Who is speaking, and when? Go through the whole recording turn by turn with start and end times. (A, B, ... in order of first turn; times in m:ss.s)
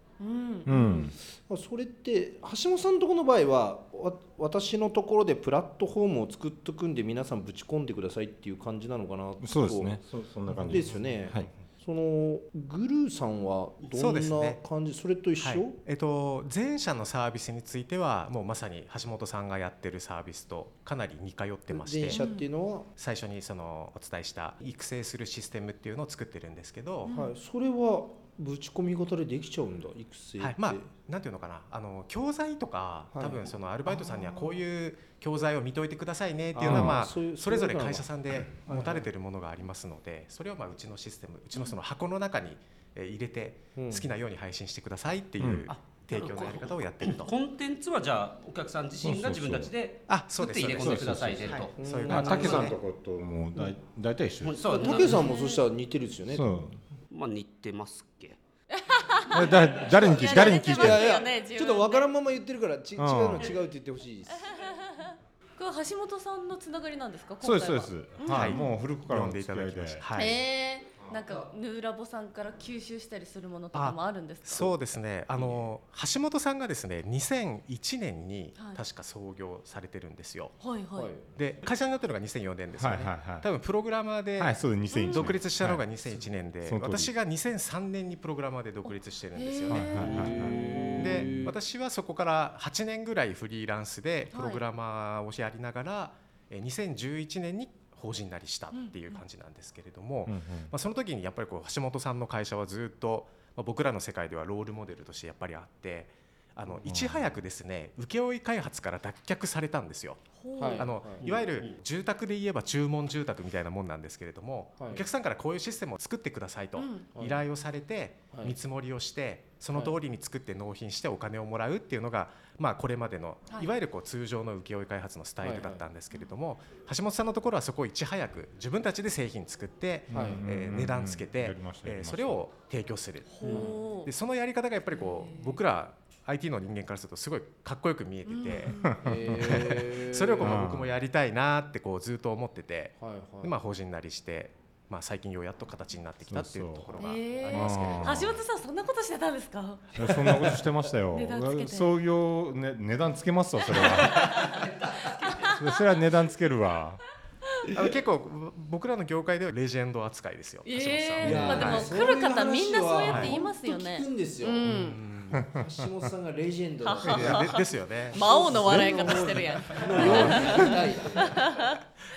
0:00.2-0:01.1 A
0:00.7-0:01.2 B
0:00.7-0:15.8 C
0:09.4-0:11.5 B
0:10.8-0:11.6 D
0:13.9-0:14.6 D
0:15.4-0:22.2 D
0:21.7-0:22.9 C
0:22.1-0:22.4 A
0:23.0-0:27.1 D
0:27.0-0:27.3 A
0:27.1-0:30.9 C
0:30.4-0:47.3 D
0:33.1-0:34.4 C
0:36.5-0:39.1 C
0:36.6-0:37.0 B
0:43.7-0:44.1 C
0:45.4-0:45.7 B
0:45.7-0:51.8 E
0:49.0-0:49.7 B
0:50.1-0:52.8 D
0:50.8-0:54.7 B
0:51.8-0:52.8 C
0:54.4-0:55.3 E
0:54.7-0:56.6 C
0:54.7-0:55.6 A
0:56.3-0:56.8 B
0:57.1-0:58.4 E
0:58.7-1:02.1 A
0:59.3-1:01.1 B
0:59.8-1:04.6 C
1:03.0-1:03.5 B
1:04.5-1:08.7 A
1:07.4-1:10.0 B
1:08.2-1:10.4 D
1:10.1-1:14.7 A
1:11.0-1:11.5 C
1:13.7-1:20.6 D
1:18.6-1:18.8 A
1:20.6-1:21.1 A
1:20.9-1:21.6 C
1:21.4-1:30.0 D
1:22.8-1:23.5 B
1:24.4-1:27.1 B
1:24.9-1:25.4 A
1:28.8-1:30.2 A
1:29.7-1:31.5 B
1:30.0-1:31.1 E
1:30.0-1:31.6 C
1:31.0-1:50.2 D
1:34.3-1:34.6 A
1:38.7-1:39.2 A
1:40.2-1:40.7 B
1:46.8-1:47.3 B
1:50.4-1:50.9 A
1:50.6-1:51.2 C
1:50.8-2:18.8 D
1:51.2-1:51.8 E
1:54.8-1:55.0 C
1:56.8-1:57.1 A
1:57.2-1:57.5 C
1:58.3-1:58.6 C
2:05.4-2:05.8 C
2:10.1-2:12.5 B
2:10.1-2:10.4 C
2:13.3-2:14.1 A
2:13.4-2:13.7 C
2:14.9-2:15.6 A
2:18.2-2:19.1 A
2:18.7-2:19.7 B
2:19.0-2:20.6 C
2:19.4-2:28.3 D
2:20.4-2:20.9 B
2:23.0-2:23.6 C
2:26.3-2:28.4 B
2:27.0-2:29.8 A
2:30.0-2:34.5 B
2:30.0-2:30.7 C
2:31.1-2:31.9 A
2:33.7-2:35.8 A
2:35.5-2:37.0 B
2:37.7-2:41.9 D
2:40.6-2:45.0 A
2:41.2-2:44.7 C
2:41.3-2:41.6 B
2:43.0-2:43.4 D
2:44.7-2:45.4 D
2:45.3-2:47.5 C
2:45.3-2:45.6 B
2:46.8-2:51.8 A
2:47.0-2:48.2 D
2:48.1-2:51.6 C
2:48.7-2:49.1 B
2:50.0-2:50.8 B